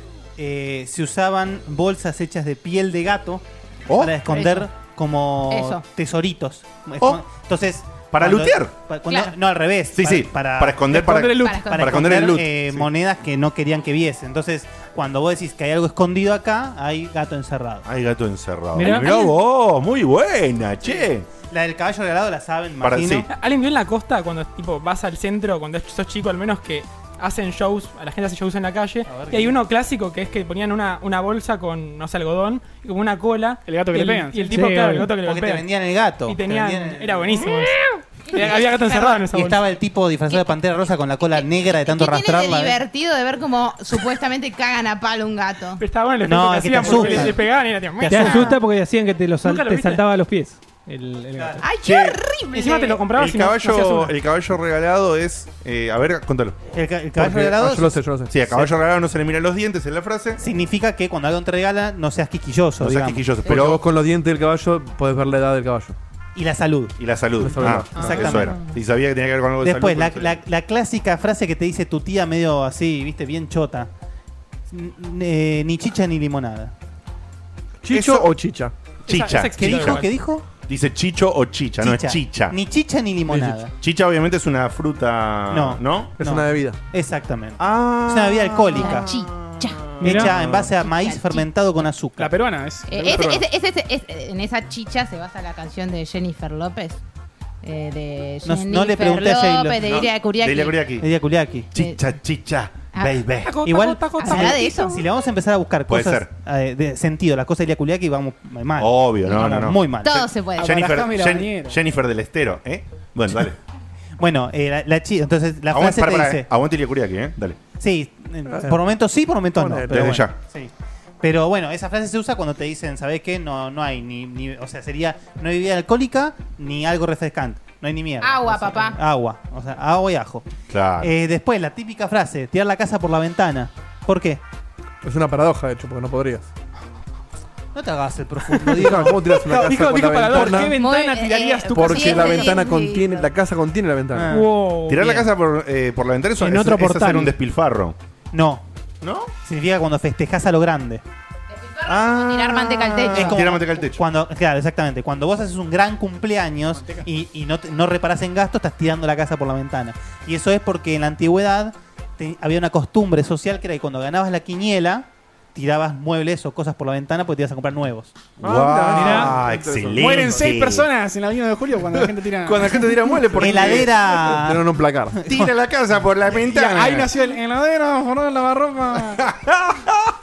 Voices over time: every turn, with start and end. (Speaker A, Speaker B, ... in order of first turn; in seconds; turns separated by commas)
Speaker A: 0.4-11.0, Speaker B: 3.9-4.1, Speaker C: 4.2-4.7, Speaker C: 5.5-5.8, Speaker B: 8.1-8.7, Speaker B: 9.9-12.6, Speaker D: 10.9-11.6, Speaker C: 11.4-12.2, Speaker A: 11.7-17.9, Speaker B: 17.8-21.3, Speaker E: 18.7-19.3, Speaker A: 20.8-23.3, Speaker B: 22.8-23.3, Speaker F: 23.3-35.7, Speaker A: 29.1-29.6, Speaker D: 33.6-34.5, Speaker E: 34.5-35.1, Speaker A: 35.1-37.5, Speaker F: 36.2-39.6, Speaker C: 38.3-39.2, Speaker A: 39.3-42.8, Speaker C: 41.3-45.8, Speaker F: 45.8-48.5, Speaker A: 46.2-48.6, Speaker E: 46.9-47.2, Speaker E: 48.0-51.6, Speaker F: 49.4-50.0, Speaker A: 51.3-51.6, Speaker C: 51.6-53.0, Speaker B: 51.8-52.2, Speaker F: 52.5-54.1, Speaker B: 53.1-56.6, Speaker A: 56.7-58.7, Speaker G: 57.1-58.3, Speaker B: 58.3-60.4, Speaker A: 60.4-63.4, Speaker B: 62.8-63.8, Speaker G: 63.5-66.0, Speaker A: 66.3-68.7, Speaker B: 67.0-70.4, Speaker G: 67.4-68.0, Speaker F: 67.9-68.3, Speaker A: 69.6-73.9, Speaker A: 74.7-76.7, Speaker G: 77.8-78.7, Speaker B: 77.9-78.3, Speaker B: 79.1-80.0, Speaker F: 79.1-80.1, Speaker A: 79.6-80.5, Speaker B: 80.7-82.6, Speaker A: 81.8-83.7, Speaker G: 83.3-83.6, Speaker B: 83.8-86.2, Speaker A: 85.5-89.1, Speaker G: 86.2-86.8, Speaker B: 87.6-90.7, Speaker C: 88.7-90.0, Speaker A: 90.0-92.3, Speaker E: 90.0-90.3, Speaker C: 90.7-91.5, Speaker D: 92.2-93.4, Speaker C: 92.9-97.0, Speaker C: 97.6-100.8, Speaker A: 98.4-100.0, Speaker B: 99.8-101.1, Speaker A: 101.0-101.7, Speaker C: 101.7-102.0, Speaker B: 101.7-103.6, Speaker F: 103.4-104.8, Speaker A: 103.6-110.2, Speaker C: 104.2-105.0, Speaker B: 105.9-106.3, Speaker B: 108.8-109.8, Speaker C: 110.0-110.7, Speaker D: 110.6-111.8, Speaker B: 110.6-113.6, Speaker A: 114.2-116.5, Speaker B: 115.7-117.6, Speaker A: 117.8-130.4, Speaker G: 118.5-118.8, Speaker G: 119.5-120.2, Speaker B: 119.9-120.3, Speaker C: 128.2-129.0, Speaker B: 130.7-131.1, Speaker A: 131.0-134.4, Speaker G: 135.0-136.5, Speaker A: 137.7-139.4, Speaker G: 138.5-140.7, Speaker D: 139.5-139.8, Speaker F: 139.5-141.5, Speaker D: 140.3-140.7, Speaker C: 140.6-143.3, Speaker G: 141.7-144.3, Speaker D: 141.8-142.5, Speaker A: 144.1-144.5, Speaker E: 144.3-145.3, Speaker B: 144.8-147.9, Speaker E: 146.4-147.4, Speaker A: 148.3-148.6, Speaker B: 149.0-149.3, Speaker A: 149.4-151.0, Speaker C: 151.5-153.6, Speaker B: 151.8-154.0, Speaker A: 153.1-168.2, Speaker D: 156.8-157.1, Speaker B: 168.4-170.9, Speaker G: 168.4-170.4, Speaker E: 168.9-169.3, Speaker D: 170.0-172.9, Speaker B: 171.9-173.9, Speaker A: 173.4-175.5, Speaker G: 173.5-175.2, Speaker B: 175.2-177.1, Speaker D: 176.4-179.2, Speaker B: 179.0-179.9